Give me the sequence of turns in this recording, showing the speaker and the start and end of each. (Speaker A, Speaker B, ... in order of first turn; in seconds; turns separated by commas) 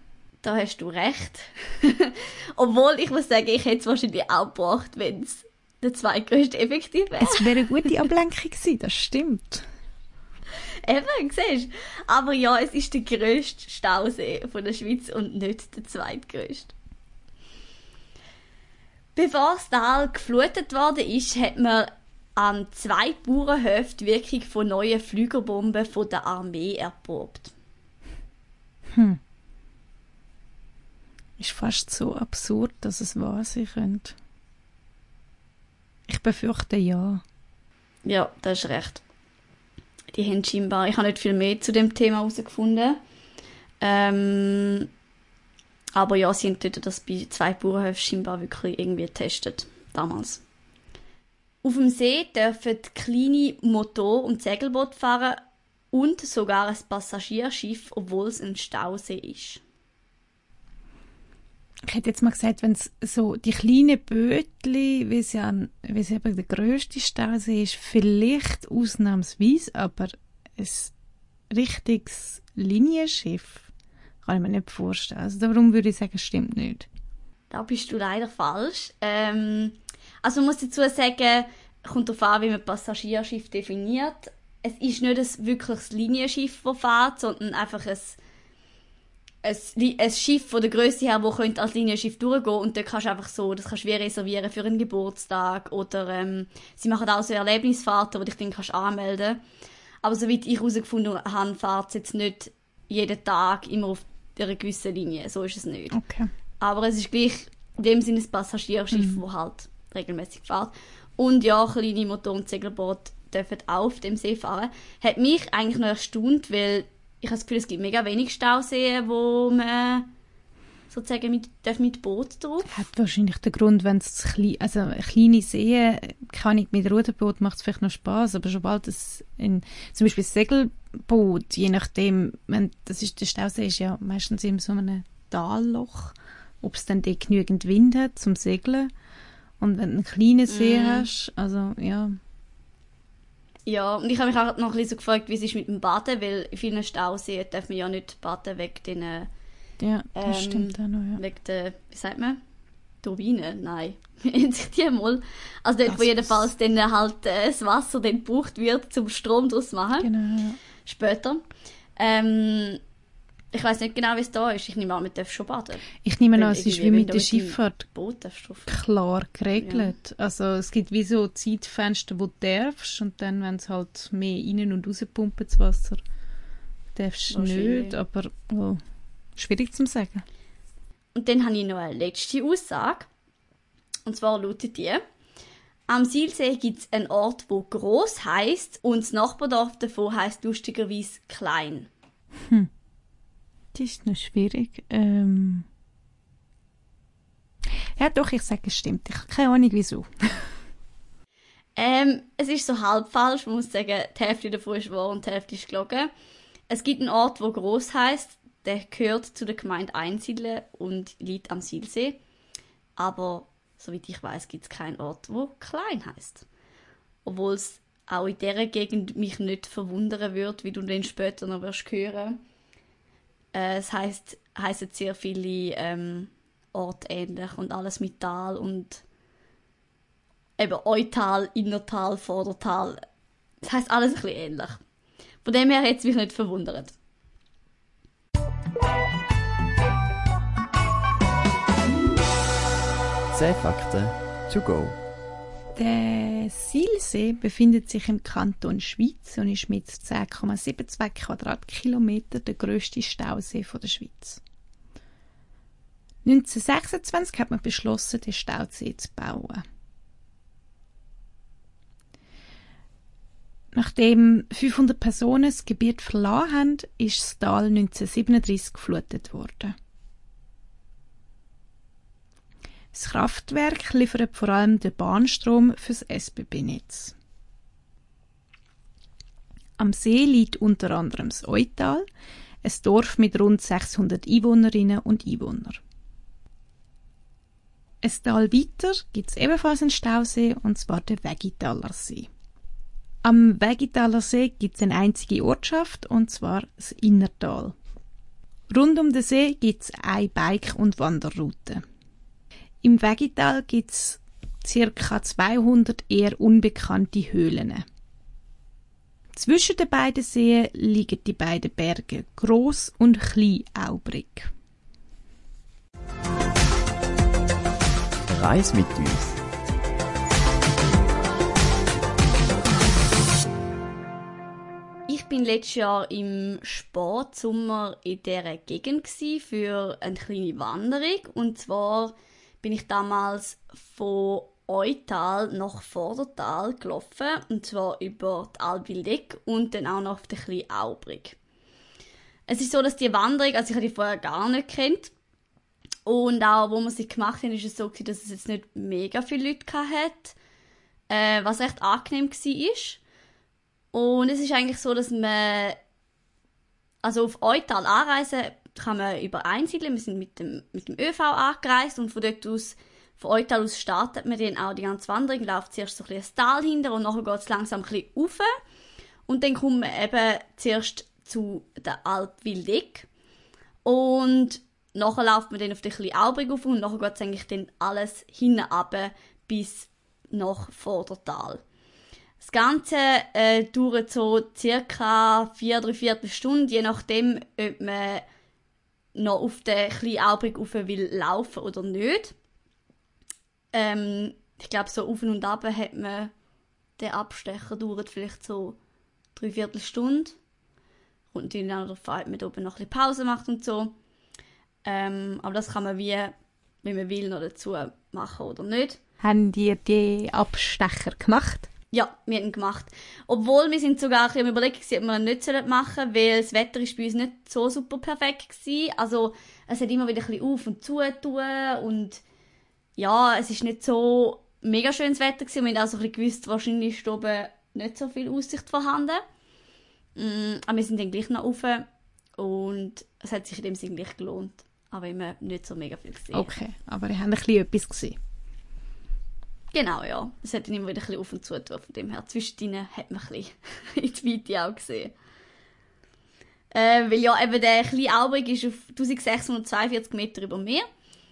Speaker A: 0.4-7.5, Speaker B: 7.2-9.7, Speaker A: 10.8-16.7, Speaker A: 19.1-27.5, Speaker B: 28.9-29.2, Speaker B: 31.4-34.1, Speaker B: 36.1-37.2, Speaker A: 38.0-39.0, Speaker A: 40.1-43.0, Speaker A: 43.8-44.9, Speaker A: 46.0-50.4, Speaker A: 51.6-59.6, Speaker B: 61.9-70.9, Speaker B: 71.5-73.7, Speaker B: 74.2-76.9, Speaker A: 77.5-88.2, Speaker A: 89.4-99.4, Speaker A: 100.0-106.0, Speaker B: 105.9-106.3, Speaker A: 106.6-120.1, Speaker A: 120.9-122.7, Speaker B: 122.7-138.9, Speaker B: 139.6-142.2, Speaker A: 140.5-141.1, Speaker A: 143.7-149.3, Speaker B: 149.8-151.2, Speaker A: 150.1-152.4, Speaker A: 153.0-160.1, Speaker B: 155.9-156.4, Speaker B: 160.0-160.6, Speaker A: 160.8-161.4, Speaker A: 162.0-162.8, Speaker A: 163.5-168.8, Speaker B: 166.0-167.8, Speaker B: 168.7-176.0, Speaker A: 169.6-169.9, Speaker B: 176.9-178.8, Speaker A: 177.3-178.0, Speaker B: 179.3-180.2, Speaker A: 181.1-183.1, Speaker A: 184.1-185.0, Speaker A: 185.9-191.9, Speaker B: 192.4-192.7, Speaker B: 193.7-195.7, Speaker B: 198.0-200.5, Speaker A: 201.8-206.1, Speaker A: 206.7-212.2, Speaker A: 213.0-216.4, Speaker A: 217.2-222.4, Speaker A: 223.5-229.0, Speaker A: 230.6-233.0, Speaker A: 233.6-234.8, Speaker A: 235.4-236.9, Speaker C: 243.3-245.0, Speaker B: 245.7-254.4, Speaker B: 256.2-259.6, Speaker B: 263.7-269.7, Speaker B: 272.9-277.1, Speaker B: 279.8-282.0, Speaker B: 282.6-285.8, Speaker B: 288.0-292.3, Speaker B: 293.2-297.8, Speaker B: 298.7-301.8, Speaker B: 302.8-307.9, Speaker B: 309.3-314.5, Speaker C: 318.3-319.4, Speaker A: 325.1-341.4, Speaker A: 342.5-345.1, Speaker A: 346.1-350.4, Speaker A: 351.1-353.0, Speaker A: 353.9-355.8, Speaker A: 357.0-368.5, Speaker A: 369.3-373.1, Speaker A: 373.8-381.6, Speaker A: 382.4-388.2, Speaker A: 389.1-392.3, Speaker A: 393.7-396.3, Speaker A: 397.0-398.8, Speaker A: 399.3-400.4, Speaker A: 401.3-403.9, Speaker A: 404.8-409.0, Speaker B: 409.2-411.7, Speaker A: 411.9-422.2, Speaker A: 423.0-429.2, Speaker A: 430.1-431.9, Speaker A: 432.4-436.5, Speaker B: 436.3-438.2, Speaker A: 439.7-445.1, Speaker A: 446.7-450.9